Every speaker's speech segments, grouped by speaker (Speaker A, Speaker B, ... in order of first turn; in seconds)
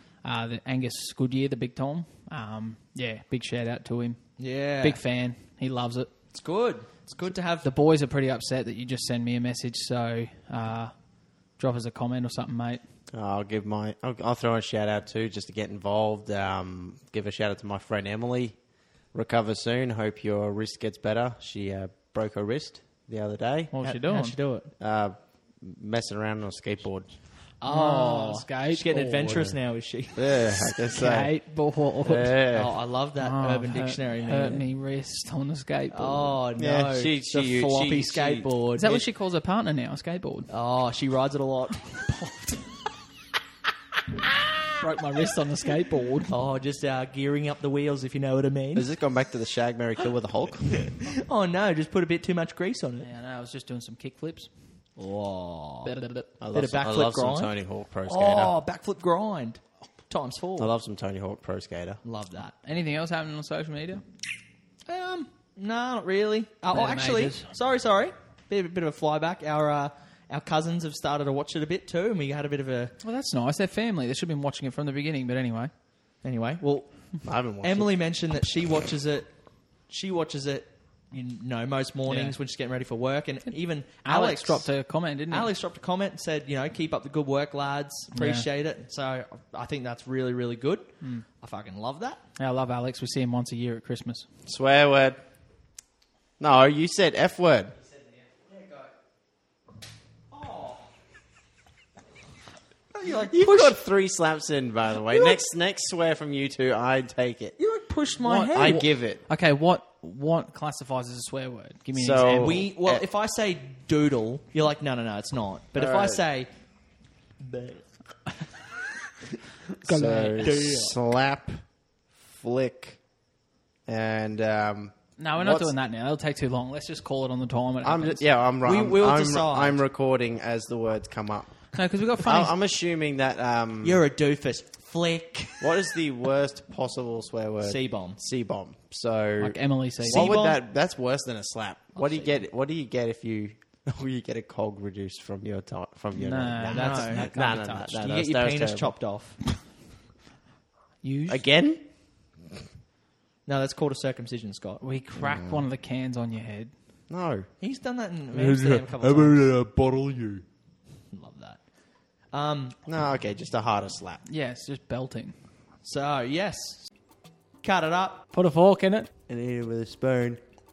Speaker A: 0.2-4.2, 4.8-6.1, 7.6-10.9, 11.6-12.8, 23.7-24.4, 27.6-29.4, 30.9-32.4, 33.2-36.4, 38.7-40.5, 42.1-42.6, 44.8-46.4, 53.0-54.5, 55.8-56.3, 62.6-64.0, 66.7-67.5, 73.0-75.7, 82.0-82.4, 84.0-85.5, 88.1-88.5, 91.0-91.2, 92.3-94.2, 108.2-112.7, 119.8-120.7, 125.2-128.3, 131.7-132.5, 139.4-140.5, 146.1-148.0, 151.0-151.4, 154.8-156.7, 164.2-165.3, 168.3-169.1
Speaker B: 4.4-5.0, 6.3-7.7, 23.8-24.7, 27.6-30.4, 32.5-34.6, 35.9-39.0, 40.5-42.0, 46.3-48.9, 50.8-53.1, 55.0-55.9, 56.5-60.7, 62.0-62.5, 64.9-72.9, 76.2-76.9, 77.6-79.3, 79.9-84.7, 85.3-92.2, 98.5-98.9, 100.3-100.8, 102.9-103.8, 105.1-105.4, 107.6-108.8, 112.2-116.5, 117.4-117.8, 120.4-120.9, 128.6-129.8, 133.8-135.9, 137.6-138.2, 140.0-140.6, 141.9-142.4, 146.7-147.3, 147.9-149.4, 153.5-154.8, 157.6-159.4, 161.1-161.6, 162.3-162.8, 165.8-166.9, 167.6-168.2
Speaker C: 13.1-18.6, 19.1-23.7, 24.8-27.1, 29.3-29.6, 30.1-31.4, 32.0-32.7, 36.5-38.5, 48.7-50.9, 56.4-58.5, 60.6-62.0, 77.2-78.0, 94.5-95.2, 96.4-97.8, 103.3-107.5, 108.5-109.2, 111.9-113.0, 115.8-116.2, 119.8-121.6, 122.2-123.0, 123.9-125.7, 127.8-131.5, 132.2-134.0, 135.6-148.9, 151.3-151.8, 155.2-155.6, 157.1-157.5, 158.3-160.4, 162.8-164.2, 169.3-170.4